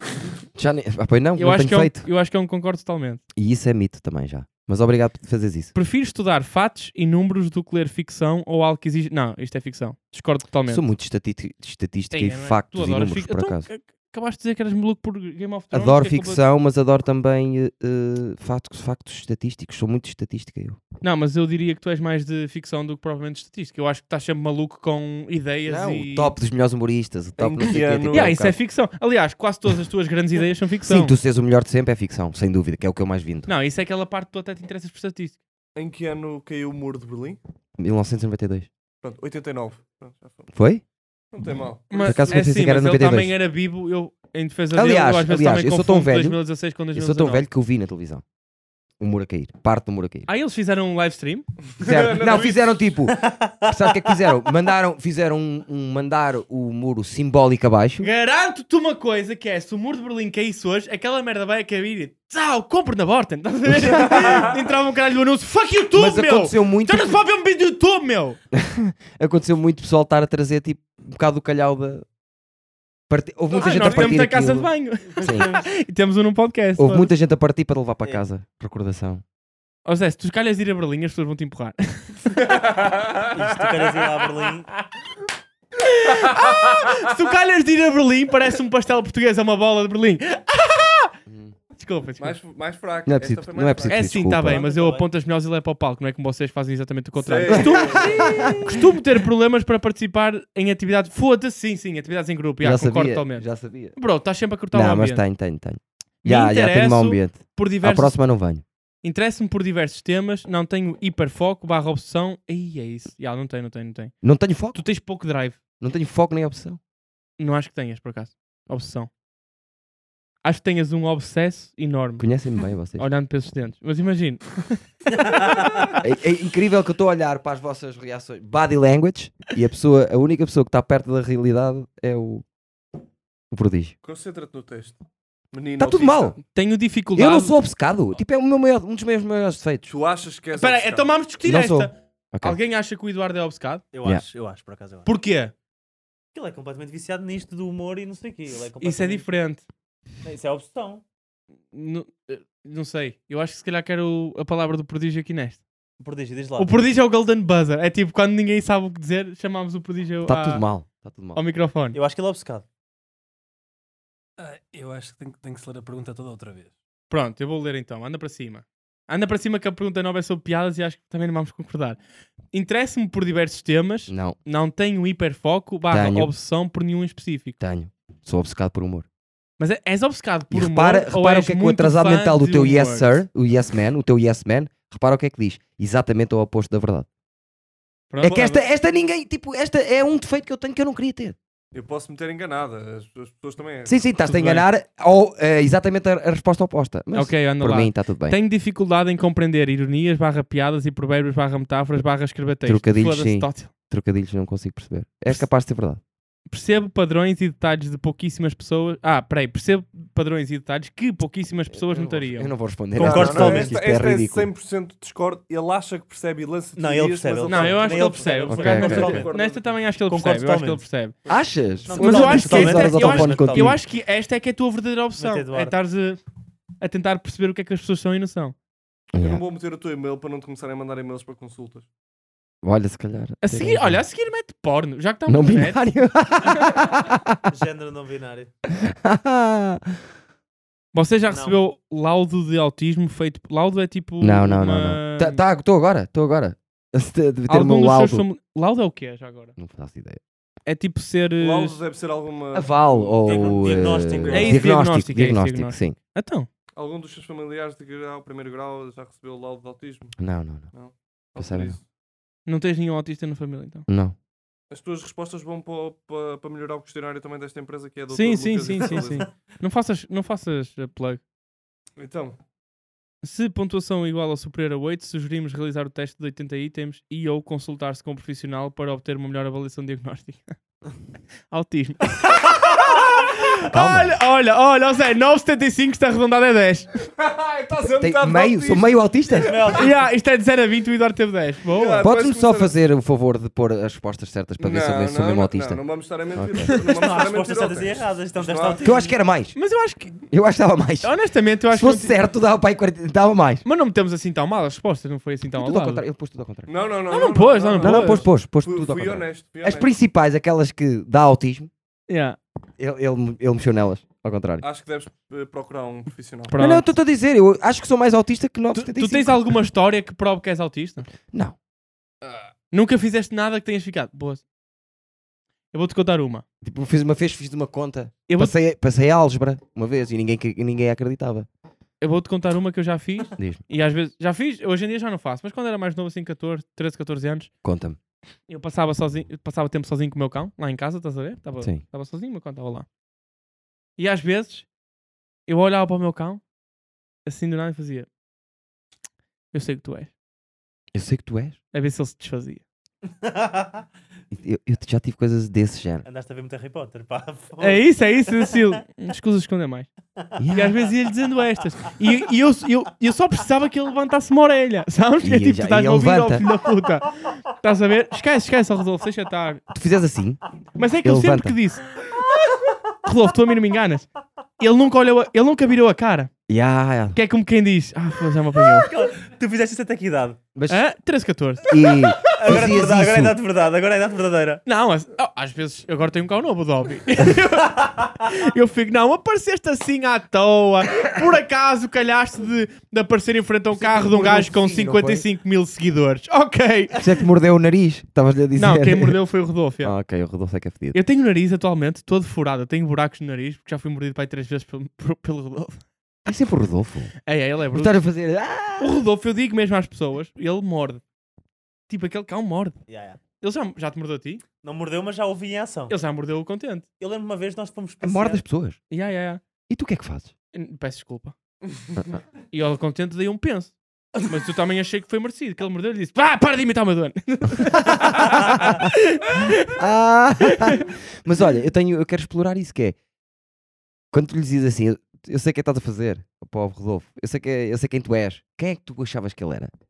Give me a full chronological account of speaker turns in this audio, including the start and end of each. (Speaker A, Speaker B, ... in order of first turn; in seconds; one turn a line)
Speaker A: 0.5-2.1
Speaker B: 1.4-3.2
Speaker A: 3.4-5.7
Speaker B: 5.7-10.8
Speaker A: 10.7-13.7
Speaker B: 12.1-16.4
Speaker A: 15.7-20.8
Speaker B: 21.0-26.4
Speaker A: 25.6-28.6
Speaker C: 27.4-28.4
Speaker B: 27.9-31.1
Speaker A: 30.8-33.5
Speaker B: 33.5-35.4
Speaker C: 35.7-37.4
Speaker A: 37.8-38.7
Speaker C: 39.0-40.5
Speaker A: 40.5-40.8
Speaker C: 41.3-42.5
Speaker B: 41.9-47.4
Speaker A: 42.0-43.3
Speaker A: 44.7-46.4
Speaker A: 46.9-48.2
Speaker A: 49.0-50.3
Speaker B: 50.3-51.5
Speaker C: 51.8-52.9
Speaker A: 51.8-58.1
Speaker D: 53.1-53.8
Speaker B: 58.0-68.4
Speaker A: 63.7-64.5
Speaker A: 65.9-67.2
Speaker A: 68.5-72.0
Speaker A: 73.1-75.5
Speaker B: 73.5-77.1
Speaker A: 76.8-79.2
Speaker B: 79.9-82.5
Speaker C: 82.4-83.9
Speaker D: 83.3-84.7
Speaker B: 85.8-91.1
Speaker A: 91.3-91.5
Speaker B: 91.7-92.4
Speaker C: 92.2-94.3
Speaker A: 93.0-94.6
Speaker B: 93.8-105.2
Speaker D: 94.4-95.1
Speaker C: 97.2-98.7
Speaker A: 97.5-98.8
Speaker A: 102.6-104.0
Speaker A: 104.7-108.6
Speaker B: 106.2-108.2
Speaker B: 109.0-114.1
Speaker A: 114.2-114.8
Speaker B: 114.7-115.6
Speaker A: 115.8-116.8
Speaker B: 117.4-119.1
Speaker B: 120.4-122.3
Speaker A: 122.2-123.0
Speaker B: 123.0-125.7
Speaker A: 126.0-132.4
Speaker A: 133.5-133.9
Speaker C: 134.0-135.0
Speaker C: 135.5-136.4
Speaker A: 135.8-136.4
Speaker B: 136.5-137.6
Speaker A: 137.1-139.9
Speaker C: 139.9-141.1
Speaker B: 140.5-143.8
Speaker A: 141.4-142.6
Speaker D: 143.9-145.1
Speaker B: 145.0-145.5
Speaker D: 146.3-149.3
Speaker B: 148.8-149.6
Speaker D: 150.2-151.0
Speaker B: 151.7-155.6
Speaker D: 156.0-156.8
Speaker B: 156.6-160.6
Speaker A: 160.2-161.4
Speaker B: 161.3-162.0
Speaker D: 161.9-162.6
Speaker E: 164.4-166.7
Speaker B: 167.1-172.0
Speaker B: 172.5-177.6
Speaker A: 174.1-174.4
Speaker A: 175.9-176.3
Speaker A: 177.6-179.1
Speaker B: 179.6-183.2
Speaker A: 180.5-187.1
Speaker B: 188.1-188.6
Speaker A: 188.2-191.4
Speaker C: 191.7-194.0
Speaker A: 193.9-198.4
Speaker B: 194.2-194.6
Speaker B: 197.1-203.7
Speaker A: 202.6-206.0
Speaker B: 206.5-212.5
Speaker A: 211.7-214.5
Speaker C: 212.9-219.8
Speaker D: 213.0-213.8
Speaker D: 216.8-219.3
Speaker B: 217.4-221.1
Speaker A: 218.5-219.2
Speaker D: 220.1-220.8
Speaker A: 221.3-223.8
Speaker D: 221.9-223.8
Speaker B: 221.9-226.2
Speaker D: 225.2-225.7
Speaker B: 226.8-228.5
Speaker A: 229.1-229.4
Speaker C: 229.2-231.9
Speaker A: 232.6-234.0
Speaker B: 233.4-235.9
Speaker A: 235.3-237.4
Speaker B: 236.4-236.8
Speaker D: 237.5-238.5
Speaker A: 238.7-240.0
Speaker B: 240.9-245.4
Speaker D: 241.3-241.6
Speaker A: 244.2-248.2
Speaker B: 247.5-249.5
Speaker A: 249.6-250.2
Speaker B: 250.7-251.8
Speaker C: 251.4-254.6
Speaker A: 252.5-255.9
Speaker D: 253.2-254.7
Speaker B: 254.3-256.5
Speaker C: 256.7-260.2
Speaker A: 260.2-260.7
Speaker C: 260.7-261.9
Speaker A: 261.4-261.8
Speaker B: 262.4-263.9
Speaker A: 263.9-264.1
Speaker C: 264.7-269.3
Speaker B: 268.1-271.2
Speaker C: 272.0-272.4
Speaker B: 273.2-280.5
Speaker B: 281.5-286.9
Speaker A: 283.6-284.1
Speaker C: 287.1-289.8
Speaker A: 288.0-289.6
Speaker D: 289.3-290.1
Speaker B: 289.7-292.1
Speaker C: 291.7-292.7
Speaker A: 292.0-295.8
Speaker C: 294.6-298.9
Speaker A: 296.3-296.7
Speaker D: 296.9-299.1
Speaker A: 298.8-299.6
Speaker B: 299.5-300.2
Speaker A: 300.3-301.1
Speaker B: 301.0-302.2
Speaker A: 301.7-303.6
Speaker B: 303.6-306.0
Speaker A: 305.5-306.7
Speaker C: 306.6-309.9
Speaker B: 307.1-308.2
Speaker A: 307.8-311.7
Speaker B: 312.1-312.4
Speaker A: 312.8-314.6
Speaker C: 314.6-316.6
Speaker B: 316.5-316.9
Speaker A: 316.6-319.4
Speaker B: 318.7-321.1
Speaker A: 321.3-321.6
Speaker C: 322.2-322.5
Speaker B: 322.7-324.4
Speaker B: 325.7-326.4
Speaker A: 326.6-331.5
Speaker B: 328.3-328.5
Speaker B: 332.0-337.5
Speaker A: 333.4-333.6
Speaker A: 337.6-338.0
Speaker B: 338.5-342.9
Speaker B: 344.0-344.7
Speaker B: 345.5-346.4
Speaker B: 347.2-348.1
Speaker B: 349.5-350.1
Speaker A: 350.9-351.6
Speaker B: 351.7-352.6
Speaker D: 353.2-353.9
Speaker A: 354.3-356.1
Speaker D: 356.0-357.9
Speaker B: 357.6-359.9
Speaker A: 360.4-360.8
Speaker B: 360.5-369.6
Speaker A: 365.2-366.4
Speaker A: 369.7-370.4
Speaker B: 370.8-371.8
Speaker A: 371.0-371.6
Speaker B: 373.0-374.1
Speaker B: 374.6-376.3
Speaker A: 376.5-377.1
Speaker B: 377.1-378.9
Speaker D: 378.7-380.4
Speaker A: 380.5-380.9
Speaker B: 380.7-381.9
Speaker A: 381.7-383.4
Speaker D: 382.2-384.6
Speaker B: 384.6-397.0
Speaker A: 393.7-395.2
Speaker A: 397.0-399.2
Speaker B: 398.6-399.9
Speaker A: 399.8-401.0
Speaker B: 400.9-405.8
Speaker A: 406.2-407.1
Speaker B: 407.2-408.0
Speaker A: 407.7-409.0
Speaker B: 408.8-411.0
Speaker B: 411.9-412.8
Speaker D: 412.9-413.2
Speaker B: 413.4-414.4
Speaker D: 414.6-415.9
Speaker B: 415.9-416.9
Speaker D: 417.0-418.4
Speaker A: 418.0-418.8
Speaker B: 418.9-419.4
Speaker A: 419.7-420.3
Speaker B: 420.5-421.4
Speaker B: 422.5-429.8
Speaker A: 427.7-428.9
Speaker A: 429.4-432.9
Speaker B: 430.4-430.9
Speaker A: 434.1-439.7